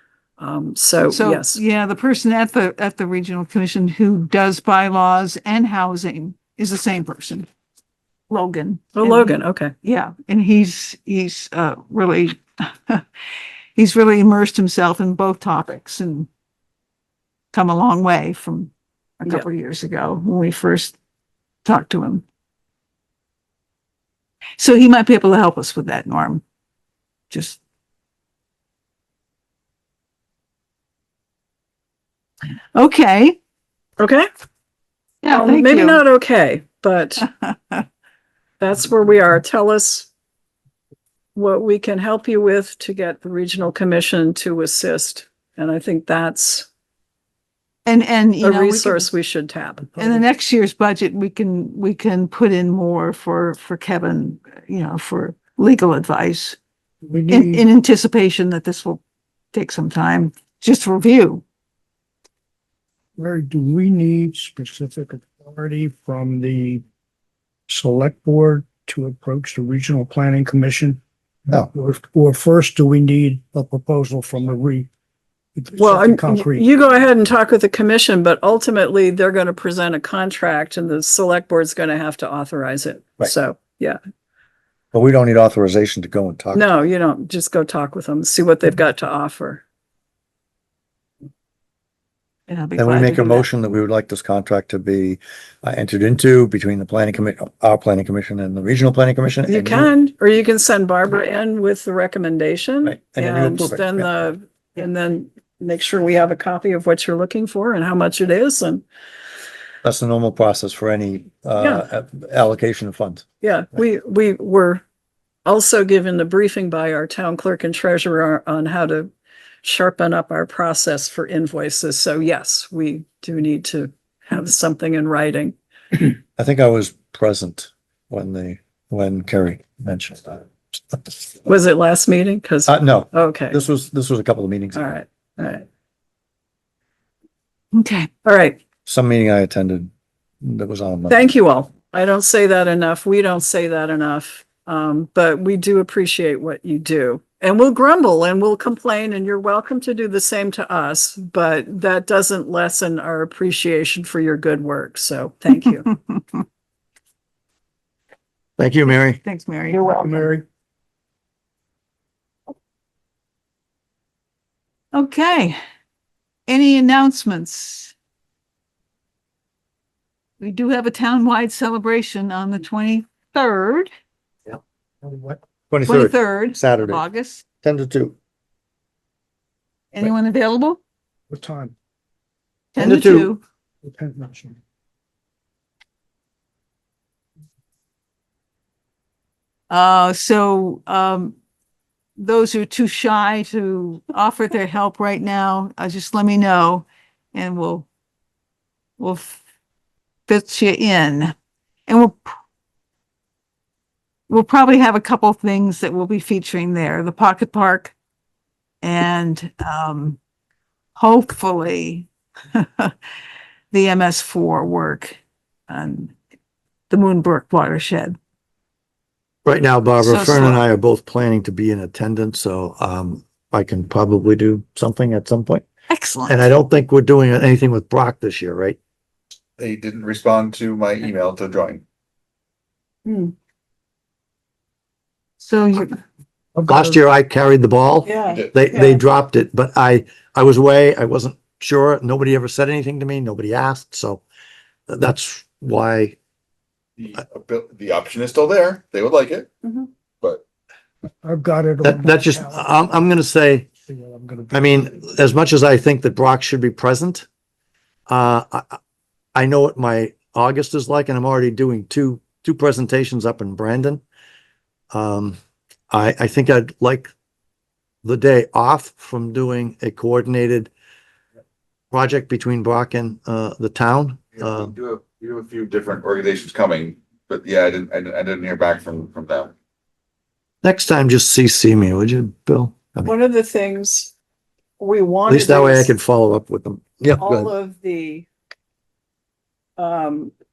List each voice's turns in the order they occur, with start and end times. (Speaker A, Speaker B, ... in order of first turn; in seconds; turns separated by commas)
Speaker A: 0.4-1.6, Speaker B: 1.0-7.5, Speaker B: 8.3-13.0, Speaker A: 8.9-9.7, Speaker B: 13.8-16.3, Speaker B: 17.5-20.9, Speaker B: 21.6-22.2, Speaker B: 24.6-26.4, Speaker B: 27.3-27.6, Speaker B: 32.7-33.4, Speaker A: 34.0-34.3, Speaker B: 35.2-36.0, Speaker A: 35.3-37.3, Speaker B: 37.4-37.8, Speaker A: 38.6-40.1, Speaker A: 41.3-46.7, Speaker B: 47.9-49.1, Speaker A: 48.4-50.2, Speaker B: 50.0-56.6, Speaker C: 57.0-57.6, Speaker B: 57.3-59.0, Speaker B: 59.5-61.4, Speaker C: 63.1-66.8, Speaker C: 67.7-71.0, Speaker C: 71.7-74.9, Speaker C: 75.5-76.7, Speaker A: 75.8-84.0, Speaker D: 84.9-86.7, Speaker A: 86.5-89.6, Speaker B: 92.5-93.5, Speaker D: 92.8-99.9, Speaker A: 99.5-108.8, Speaker D: 102.8-104.1, Speaker D: 109.8-113.2, Speaker A: 111.6-111.8, Speaker A: 113.4-114.8, Speaker A: 115.4-119.1, Speaker A: 119.6-125.5, Speaker D: 126.4-131.1, Speaker A: 131.4-133.6, Speaker D: 132.7-134.9, Speaker A: 134.7-135.7, Speaker B: 137.7-138.1, Speaker A: 138.2-138.6, Speaker D: 138.8-139.9, Speaker D: 140.4-141.3, Speaker A: 141.1-155.9, Speaker B: 155.9-156.2, Speaker D: 158.6-159.2, Speaker B: 158.9-160.3, Speaker C: 160.0-160.4, Speaker B: 164.9-165.6, Speaker B: 166.5-167.9, Speaker B: 170.4-173.9, Speaker C: 175.0-175.4, Speaker D: 175.7-177.0, Speaker B: 175.9-177.4, Speaker D: 177.6-178.2, Speaker B: 179.9-180.8, Speaker C: 181.3-181.7, Speaker B: 182.7-183.4, Speaker D: 182.8-183.3, Speaker C: 183.8-184.6, Speaker B: 189.7-191.3, Speaker B: 192.2-197.8, Speaker B: 199.0-199.4, Speaker B: 200.3-201.3, Speaker B: 201.9-202.3, Speaker B: 204.3-207.9, Speaker B: 208.8-210.2, Speaker B: 210.9-212.9, Speaker B: 213.7-215.2, Speaker B: 215.7-216.1, Speaker B: 216.9-218.2, Speaker D: 219.4-225.6, Speaker B: 220.0-220.6, Speaker B: 225.9-226.4, Speaker D: 226.2-228.8, Speaker E: 229.6-231.8, Speaker A: 233.1-233.3, Speaker B: 235.4-236.0, Speaker D: 236.7-244.2, Speaker A: 238.0-239.0, Speaker E: 238.2-238.5, Speaker D: 244.9-246.2, Speaker E: 247.0-249.5, Speaker A: 249.6-249.9, Speaker C: 251.2-252.8, Speaker D: 251.8-253.7, Speaker C: 253.9-254.8, Speaker D: 254.5-257.3, Speaker D: 258.1-258.8, Speaker D: 259.3-264.0, Speaker D: 264.9-265.4, Speaker D: 265.9-267.1, Speaker D: 268.0-270.7, Speaker D: 271.9-274.7, Speaker E: 274.4-279.5, Speaker D: 280.6-283.1, Speaker A: 283.1-284.1, Speaker A: 284.8-285.9, Speaker D: 285.3-287.5, Speaker A: 287.2-288.3, Speaker A: 289.8-290.3